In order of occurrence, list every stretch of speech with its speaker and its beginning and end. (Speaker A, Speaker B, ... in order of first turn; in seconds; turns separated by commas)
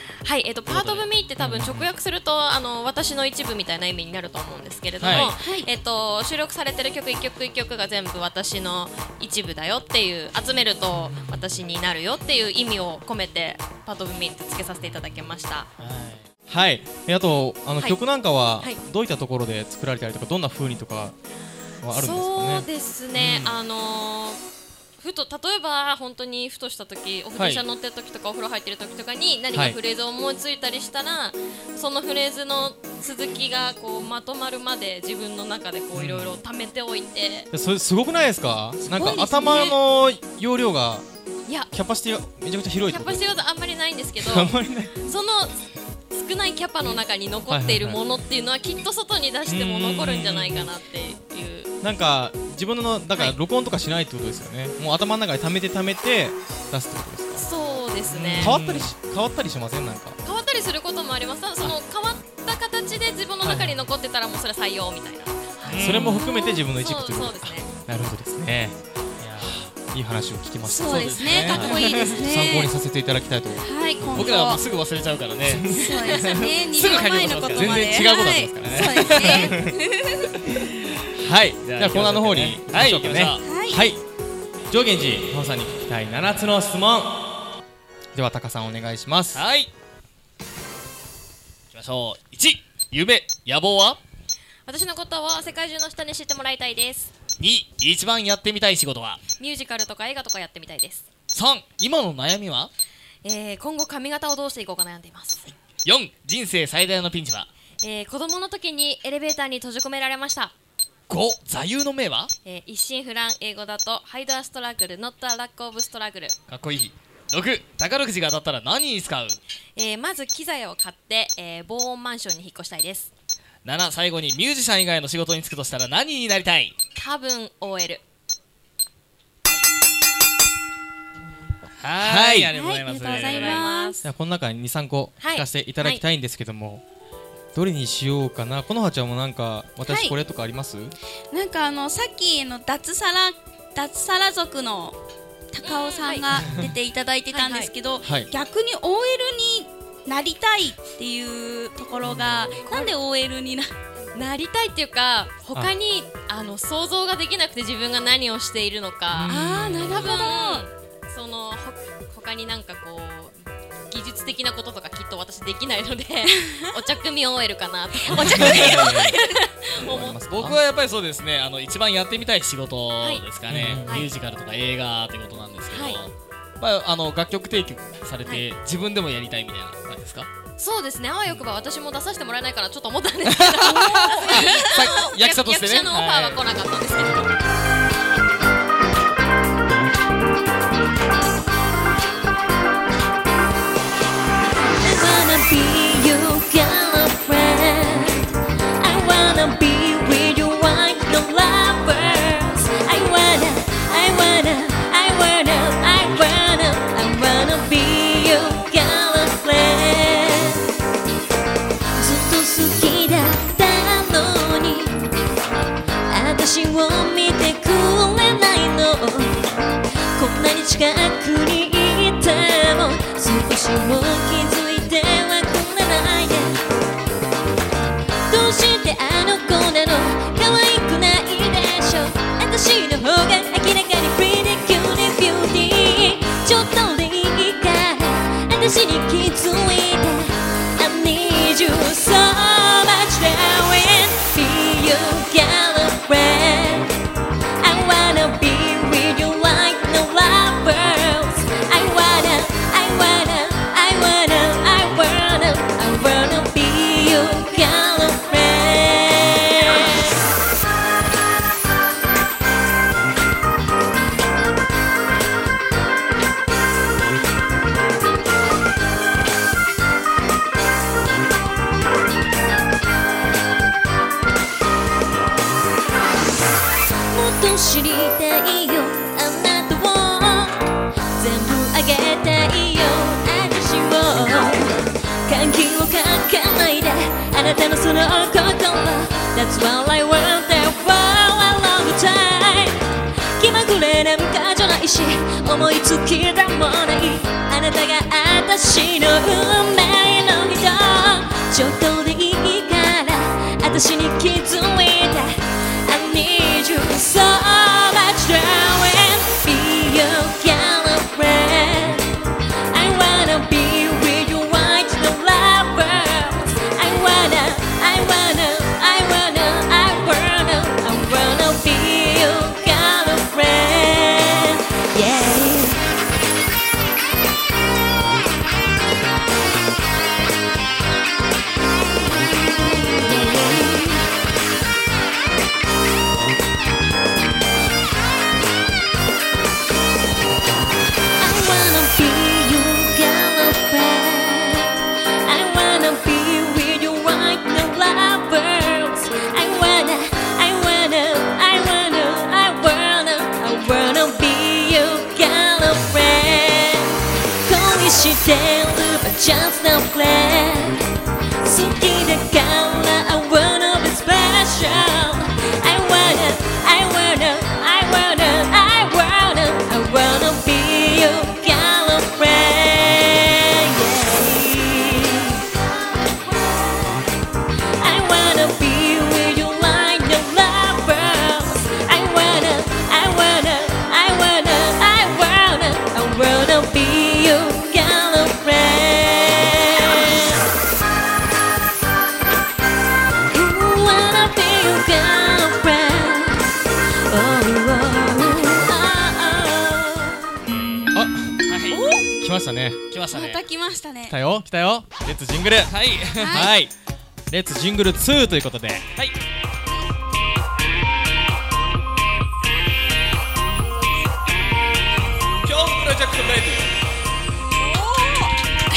Speaker A: 0.2-15.7, Speaker B: 0.7-1.1, Speaker C: 1.4-1.9, Speaker B: 5.0-5.3, Speaker D: 5.1-5.7, Speaker B: 15.8-16.2, Speaker C: 16.5-21.1, Speaker C: 21.8-23.6, Speaker A: 21.9-24.4, Speaker A: 25.0-37.5, Speaker B: 27.4-27.6, Speaker C: 29.5-29.8, Speaker C: 36.0-36.4, Speaker C: 37.5-41.0, Speaker A: 38.9-39.8, Speaker C: 41.7-43.3, Speaker A: 42.9-45.6, Speaker C: 44.2-45.0, Speaker A: 46.1-51.7, Speaker C: 47.5-48.0, Speaker C: 49.5-50.7, Speaker C: 51.8-57.5, Speaker A: 57.4-58.6, Speaker B: 58.1-58.9, Speaker C: 58.4-60.2, Speaker A: 60.2-67.7, Speaker C: 63.4-63.8, Speaker B: 65.7-66.2, Speaker C: 65.8-68.8, Speaker D: 66.1-66.5, Speaker B: 69.2-69.6, Speaker C: 69.4-74.2, Speaker D: 70.6-72.7, Speaker B: 70.8-72.2, Speaker D: 73.6-74.6, Speaker B: 74.1-79.5, Speaker C: 75.5-76.1, Speaker D: 75.7-80.3, Speaker C: 77.5-79.8, Speaker C: 81.2-84.0, Speaker B: 81.6-83.5, Speaker D: 83.4-83.8, Speaker C: 84.7-87.2, Speaker C: 88.1-89.4, Speaker B: 89.3-89.7, Speaker B: 91.7-94.0, Speaker A: 94.7-97.1, Speaker B: 97.4-99.2, Speaker A: 99.4-101.1, Speaker B: 101.3-102.7, Speaker A: 103.2-105.5, Speaker B: 105.8-107.5, Speaker A: 107.8-110.5, Speaker B: 111.1-112.3, Speaker A: 112.5-116.4, Speaker B: 116.5-119.4, Speaker A: 119.8-123.1, Speaker B: 123.6-126.8, Speaker A: 127.0-128.0, Speaker B: 131.8-133.7, Speaker C: 132.0-132.5, Speaker D: 132.5-134.0, Speaker A: 133.1-134.0, Speaker C: 134.0-136.8, Speaker A: 135.2-136.0, Speaker C: 137.5-140.9, Speaker D: 139.9-140.2, Speaker D: 141.3-145.0, Speaker D: 145.5-153.7, Speaker A: 145.6-146.3, Speaker A: 147.3-147.7, Speaker C: 148.0-148.3, Speaker A: 152.7-152.9, Speaker A: 154.2-163.3, Speaker C: 159.1-160.1, Speaker D: 159.3-160.7, Speaker A: 163.9-170.2, Speaker C: 168.1-169.2, Speaker B: 168.4-168.9, Speaker C: 169.8-170.6, Speaker B: 170.3-180.3, Speaker C: 173.5-174.0, Speaker A: 175.7-176.0, Speaker A: 180.6-187.3, Speaker B: 183.3-186.4, Speaker D: 183.7-184.9, Speaker E: 194.8-210.6, Speaker E: 212.0-215.0, Speaker E: 216.1-219.5, Speaker E: 220.2-226.6, Speaker E: 228.3-246.9, Speaker E: 247.6-260.1, Speaker E: 277.1-280.6, Speaker E: 281.2-312.1, Speaker E: 312.7-325.9, Speaker E: 332.9-334.0, Speaker E: 341.2-344.7, Speaker E: 345.2-360.8, Speaker E: 361.4-375.4, Speaker E: 377.8-390.4, Speaker E: 393.3-396.5, Speaker E: 397.1-400.4, Speaker C: 400.9-401.4, Speaker B: 401.5-401.9, Speaker D: 401.7-402.1, Speaker C: 402.2-402.8, Speaker B: 402.9-403.4, Speaker D: 403.1-404.2, Speaker C: 404.1-406.7, Speaker B: 405.7-406.5, Speaker D: 406.2-406.5, Speaker C: 407.3-408.9, Speaker C: 415.5-416.6, Speaker D: 417.6-418.4